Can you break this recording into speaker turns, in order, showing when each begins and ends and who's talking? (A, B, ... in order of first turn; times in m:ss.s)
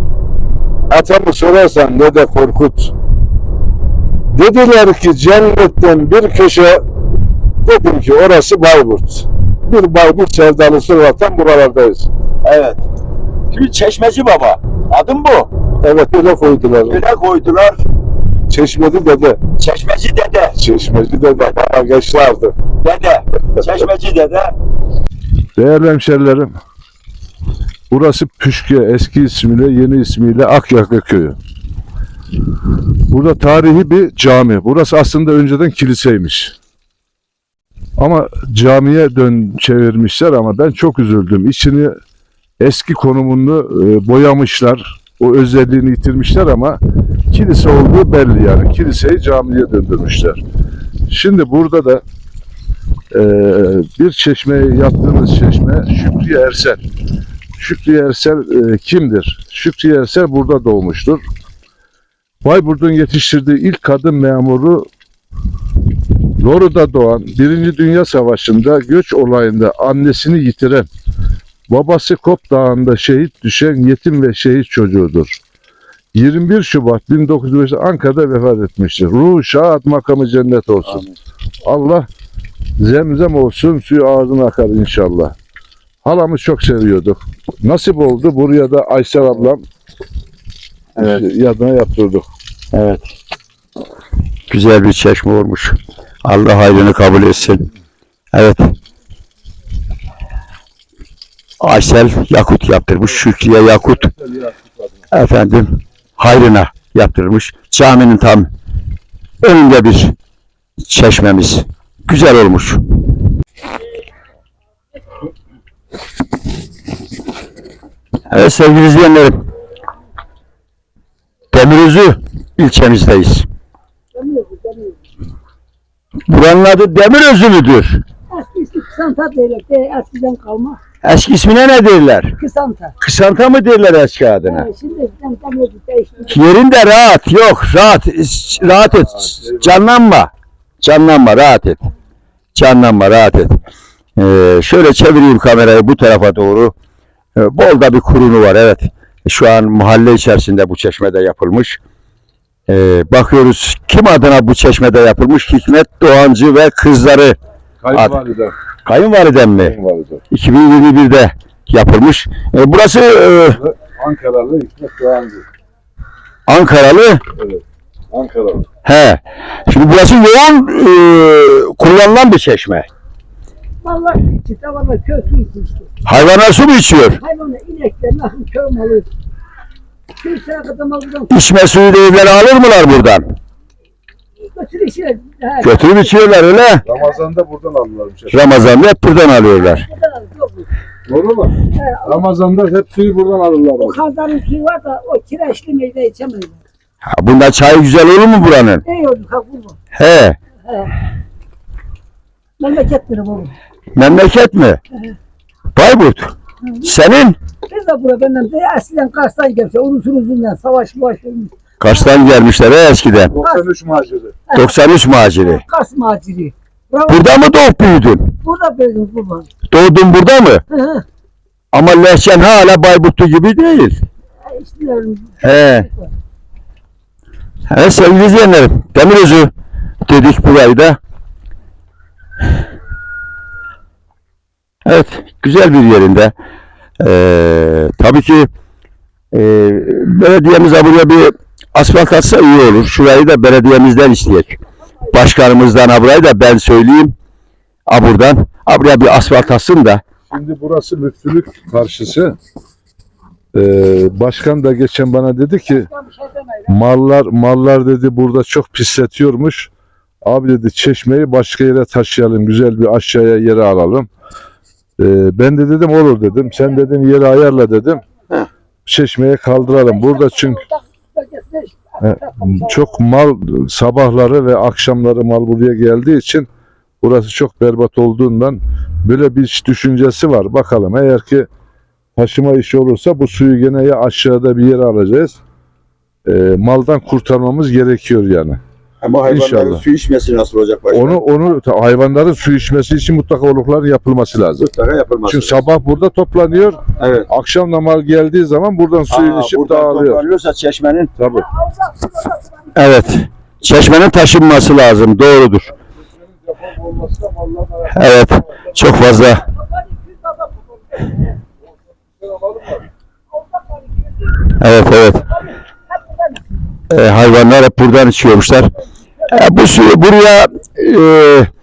0:00.9-0:02.9 A
0:04.3-0:06.8 A
0:07.6-0:12.1 A
0:12.4-0:12.8 B
0:13.5-0:15.5 B
0:15.8-0:17.0 A
0:16.9-0:17.8 B
0:18.5-0:19.4 A
0:19.6-0:20.6 B
0:20.6-0:22.5 A
0:22.8-0:24.5 B
0:25.6-0:26.5 A
0:27.9-0:31.4 A
0:33.1-0:36.6 A
0:38.0-0:41.9 A
0:42.6-0:46.8 A
0:47.3-0:50.4 A
0:51.1-0:52.0 A
0:53.1-0:56.8 A
0:57.6-1:01.2 A
1:02.4-1:04.9 A
1:06.4-1:10.9 A
1:11.7-1:15.4 A
1:16.1-1:21.0 A
1:21.6-1:22.1 A
1:22.8-1:25.4 A
1:26.0-1:29.6 A
1:31.0-1:31.2 B
1:31.0-1:32.3 A
1:32.7-1:33.1 B
1:34.5-1:37.7 B
1:38.3-1:38.7 B
1:41.6-1:44.1 B
1:44.0-1:44.5 A
1:45.1-1:48.5 B
1:49.4-1:50.1 B
1:50.9-1:52.8 B
1:58.3-1:59.4 B
2:01.5-2:03.5 B
2:04.2-2:05.0 C
2:06.3-2:08.0 B
2:08.3-2:10.8 C
2:11.0-2:12.3 B
2:12.4-2:12.9 C
2:13.0-2:14.7 B
2:14.5-2:16.4 C
2:16.3-2:20.3 B
2:19.2-2:19.7 A
2:20.8-2:21.9 B
2:22.6-2:23.6 B
2:24.2-2:26.7 B
2:27.4-2:31.8 B
2:32.7-2:37.4 B
2:37.8-2:38.5 A
2:37.9-2:38.2 B
2:38.8-2:39.8 B
2:39.6-2:40.2 A
2:40.3-2:43.6 B
2:43.5-2:45.4 A
2:46.5-2:47.2 B
2:47.4-2:48.7 A
2:48.8-2:52.9 B
2:53.8-2:55.9 C
2:56.0-2:57.2 B
2:57.2-2:59.1 C
3:00.2-3:01.3 C
3:01.3-3:03.3 B
3:04.4-3:06.1 C
3:05.6-3:06.8 B
3:06.8-3:08.5 A
3:08.3-3:09.9 B
3:09.7-3:10.7 C
3:11.1-3:14.0 A
3:11.8-3:12.1 C
3:13.8-3:16.6 C
3:17.1-3:18.8 B
3:18.8-3:19.8 C
3:20.0-3:20.4 B
3:22.6-3:23.6 C
3:24.0-3:24.8 B
3:25.8-3:26.3 B
3:26.6-3:26.9 C
3:26.8-3:27.4 B
3:27.7-3:31.6 C
3:31.8-3:33.4 B
3:33.3-3:34.4 A
3:34.5-3:35.6 B
3:35.4-3:37.3 C
3:37.1-3:38.4 B
3:38.4-3:39.5 C
3:39.7-3:40.6 B
3:40.7-3:41.0 C
3:41.7-3:44.0 B
3:44.5-3:46.1 C
3:45.4-3:45.9 B
3:47.7-3:49.5 B
3:50.0-3:51.0 B
3:54.9-3:56.3 B
3:57.0-3:58.5 B
3:59.3-4:04.6 B
4:05.1-4:07.1 B
4:07.9-4:10.0 B
4:10.3-4:12.4 A
4:13.5-4:15.9 A
4:16.7-4:19.7 A
4:20.2-4:24.1 A
4:25.0-4:28.0 A
4:28.9-4:30.6 A
4:30.0-4:32.7 C
4:32.0-4:36.5 A
4:37.0-4:41.5 A
4:42.2-4:45.4 A
4:46.3-4:48.6 A
4:49.0-4:51.2 B
4:49.2-4:49.8 A
4:50.9-4:54.6 A
4:54.6-4:55.6 B
4:55.3-5:00.2 A
4:57.0-4:57.3 B
4:59.1-5:01.1 B
5:01.2-5:01.5 A
5:01.5-5:02.8 C
5:02.8-5:05.7 B
5:05.7-5:08.6 A
5:07.9-5:09.5 B
5:09.6-5:11.1 C
5:12.2-5:12.8 A
5:14.4-5:15.3 B
5:16.0-5:16.8 C
5:16.9-5:18.7 B
5:19.3-5:21.5 B